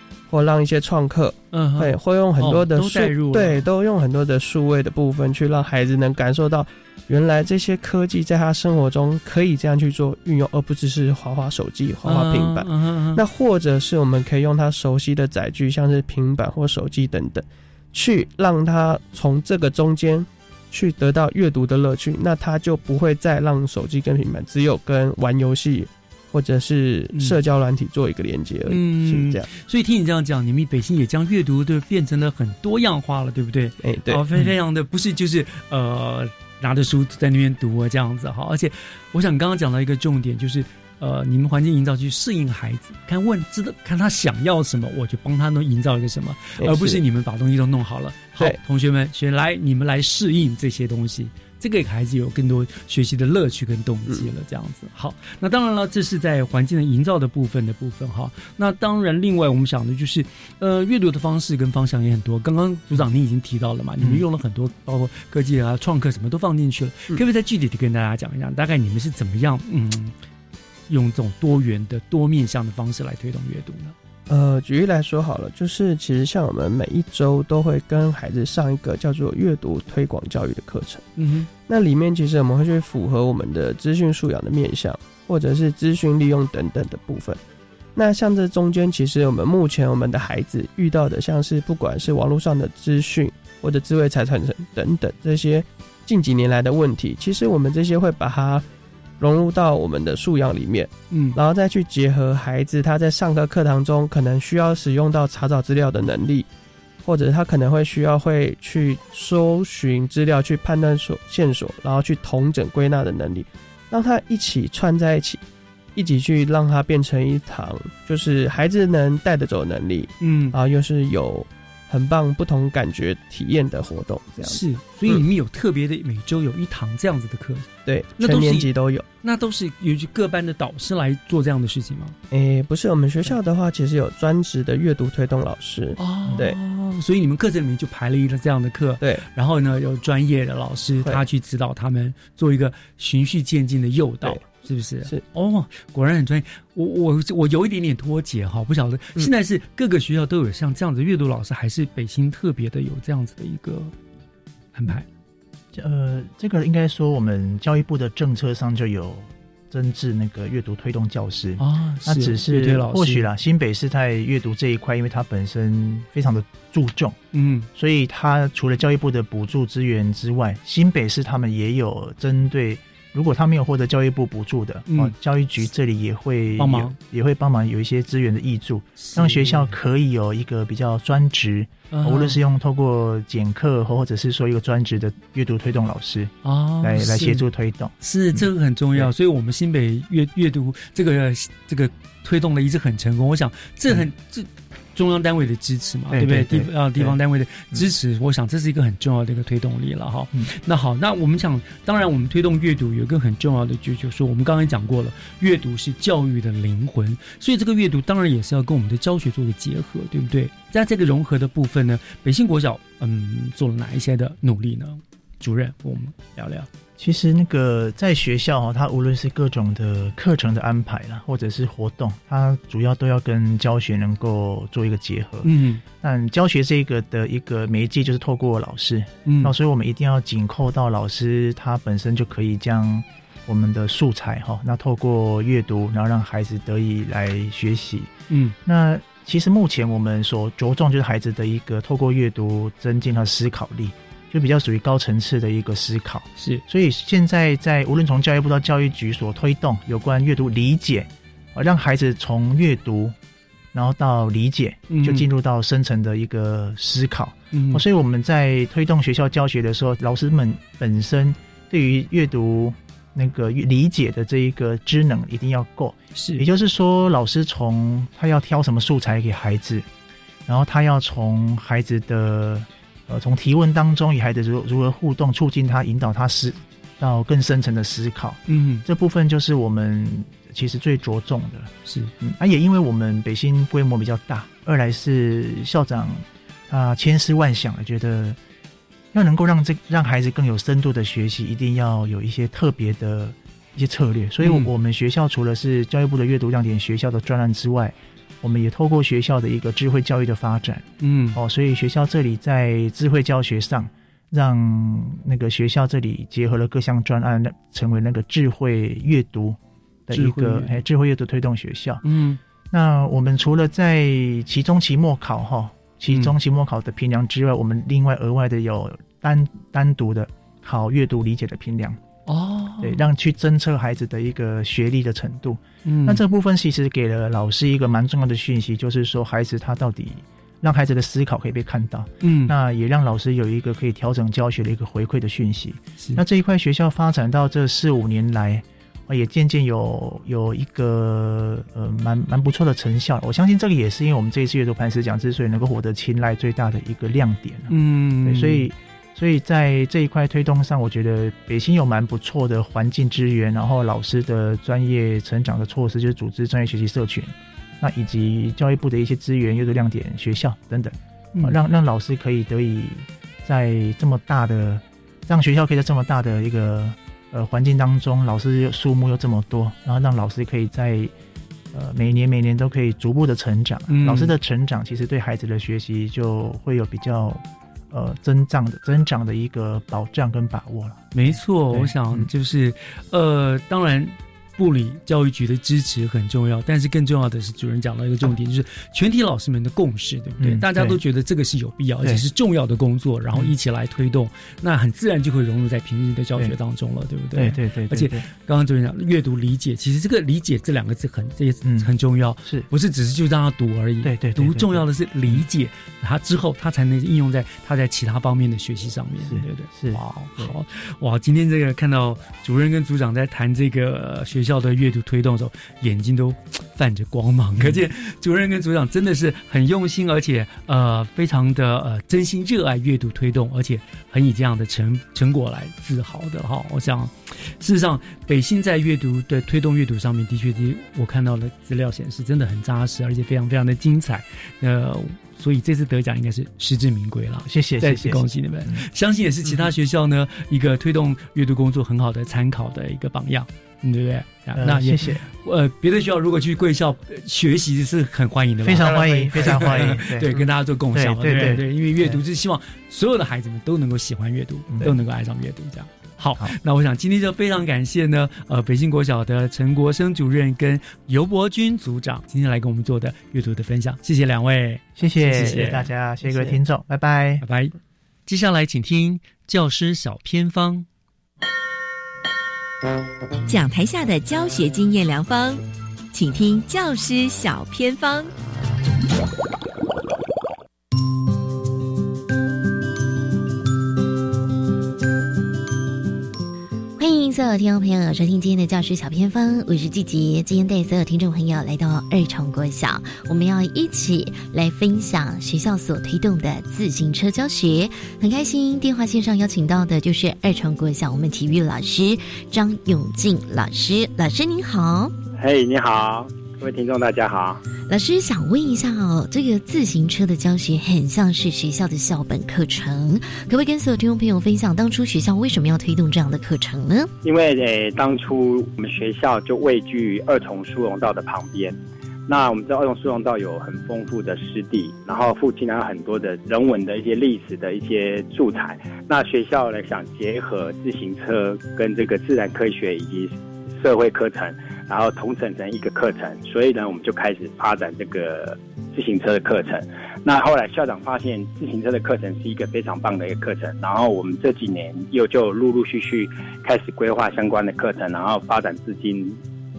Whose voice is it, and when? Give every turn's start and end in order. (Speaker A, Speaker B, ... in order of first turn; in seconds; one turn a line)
Speaker A: 0.3-29.4
Speaker B: 1.5-3.6
Speaker B: 12.0-13.2
Speaker B: 27.1-27.4
Speaker B: 28.7-70.1
Speaker A: 33.8-34.2
Speaker A: 46.6-47.0
Speaker B: 70.9-73.9
Speaker A: 74.3-81.0
Speaker B: 81.2-81.5
Speaker A: 81.7-87.4
Speaker A: 88.0-98.6
Speaker A: 99.2-106.5
Speaker B: 101.1-101.4
Speaker A: 107.0-115.4
Speaker A: 115.9-125.2
Speaker B: 120.2-120.5
Speaker B: 124.4-128.7
Speaker A: 127.8-129.0
Speaker B: 129.2-132.2
Speaker A: 132.3-136.6
Speaker B: 136.0-153.9
Speaker B: 154.7-155.1
Speaker C: 155.7-167.2
Speaker B: 161.6-163.3
Speaker B: 167.3-167.7
Speaker C: 167.7-189.1
Speaker B: 174.9-175.1
Speaker B: 176.6-176.9
Speaker B: 179.0-179.7
Speaker B: 181.9-182.4
Speaker B: 186.4-187.4
Speaker B: 188.0-216.7
Speaker C: 196.1-197.2
Speaker C: 217.0-225.5
Speaker B: 225.4-225.8
Speaker C: 226.0-238.1
Speaker B: 229.2-229.5
Speaker B: 238.3-238.5
Speaker C: 238.6-253.2
Speaker B: 246.4-246.6
Speaker C: 253.7-269.9
Speaker B: 254.9-255.3
Speaker B: 257.5-257.8
Speaker B: 266.1-266.4
Speaker C: 270.5-288.4
Speaker B: 278.5-278.8
Speaker B: 281.9-282.1
Speaker C: 289.1-312.0
Speaker B: 294.4-294.7
Speaker B: 301.0-301.4
Speaker B: 310.1-310.7
Speaker B: 312.0-312.4
Speaker C: 312.7-322.0
Speaker B: 322.3-323.0
Speaker C: 322.8-371.1
Speaker B: 325.8-326.2
Speaker B: 332.2-332.5
Speaker B: 347.7-348.6
Speaker C: 371.7-382.3
Speaker B: 373.9-374.3
Speaker B: 381.1-465.9
Speaker C: 390.4-391.0
Speaker C: 397.3-398.3
Speaker C: 401.6-401.9
Speaker C: 404.0-405.4
Speaker C: 409.2-410.5
Speaker C: 437.4-438.8
Speaker C: 444.6-445.2
Speaker C: 448.6-452.2
Speaker C: 454.7-455.0
Speaker C: 465.0-467.4
Speaker B: 467.4-467.7
Speaker B: 468.2-470.9
Speaker D: 473.5-478.3
Speaker E: 487.0-505.1
Speaker F: 505.4-507.6
Speaker E: 507.9-517.1
Speaker F: 517.2-521.8
Speaker F: 522.3-549.4